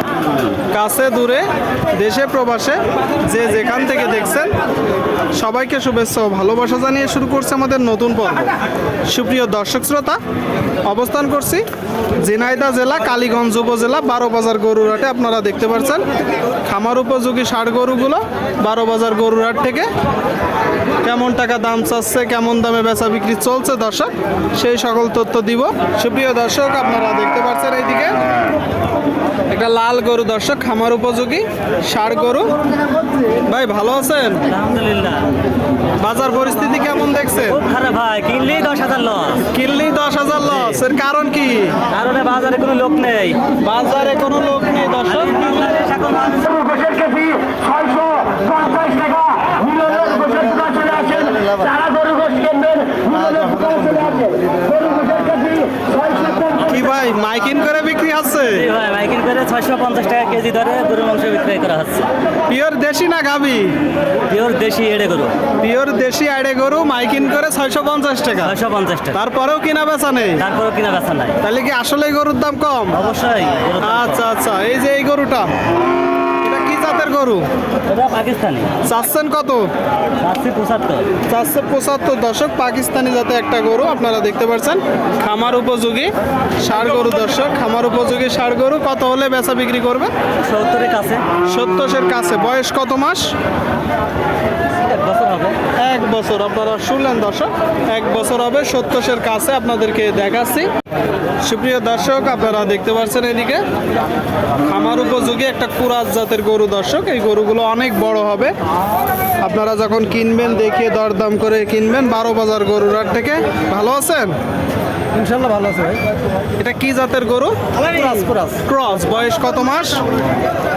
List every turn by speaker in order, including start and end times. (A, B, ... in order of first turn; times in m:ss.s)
0:00.7-0:04.5 A
0:05.3-0:08.5 A
0:09.1-0:10.2 A
0:10.8-0:11.6 A
0:12.2-0:16.0 A
0:16.6-0:19.9 A
0:21.0-0:28.2 A
0:29.5-0:32.6 A
0:33.4-0:34.5 A
0:34.5-0:35.3 B
0:36.0-0:37.6 A
0:37.5-0:39.4 B
0:39.4-0:41.8 A
0:40.5-0:40.8 B
0:41.9-0:43.4 B
0:43.6-0:45.5 A
0:45.2-0:49.3 B
0:49.7-0:55.6 C
0:56.7-0:58.7 A
0:58.5-1:02.1 B
1:02.5-1:03.8 A
1:04.3-1:05.3 B
1:05.6-1:08.6 A
1:08.4-1:09.2 B
1:09.1-1:10.4 A
1:10.4-1:11.4 B
1:11.4-1:13.0 A
1:12.9-1:14.2 B
1:13.8-1:15.6 A
1:16.4-1:17.5 A
1:17.9-1:18.7 B
1:18.8-1:19.7 A
1:20.2-1:21.1 B
1:21.3-1:30.1 A
1:30.4-1:31.2 B
1:31.4-1:33.3 A
1:34.8-1:35.6 B
1:35.8-1:40.7 A
1:41.4-1:43.6 A
1:44.6-1:48.5 A
1:49.4-1:54.4 A
1:55.1-1:56.0 B
1:56.6-1:57.6 A
1:57.8-1:58.6 B
1:58.6-2:00.0 A